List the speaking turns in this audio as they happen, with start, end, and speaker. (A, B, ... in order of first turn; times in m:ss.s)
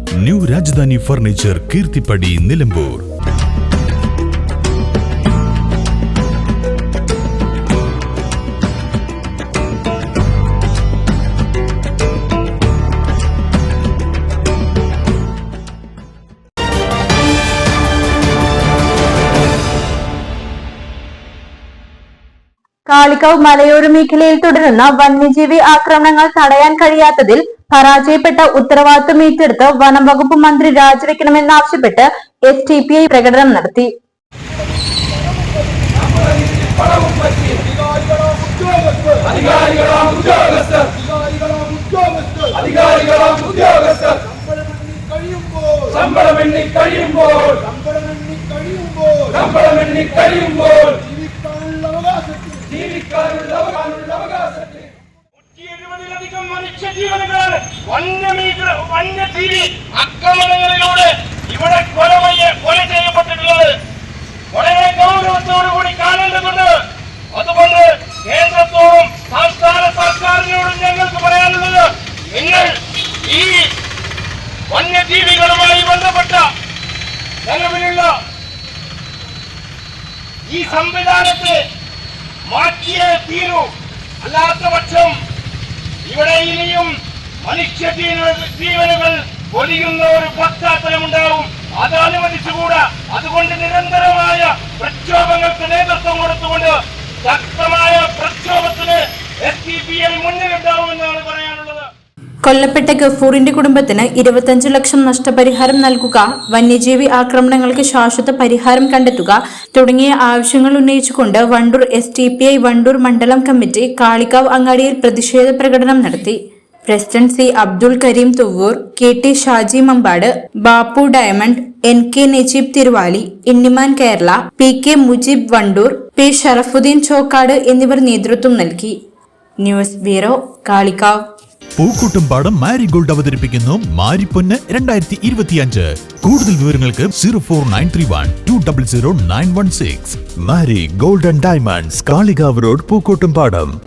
0:00.2-0:03.0 A
0:22.9-0:33.9 B
0:37.6-0:45.9 C
0:46.0-0:47.5 D
0:47.6-0:49.5 C
0:49.5-0:50.1 D
0:51.0-0:52.7 C
0:53.7-0:54.6 D
0:55.6-1:03.7 D
1:04.5-1:06.8 D
1:07.3-1:12.7 D
1:13.2-1:13.7 D
1:14.7-1:16.5 D
1:17.5-1:18.2 D
1:20.5-1:21.6 D
1:22.5-1:23.7 D
1:24.2-1:25.2 D
1:26.0-1:41.9 D
1:42.5-2:09.0 B
2:09.6-2:11.2 B
2:11.8-2:23.7 A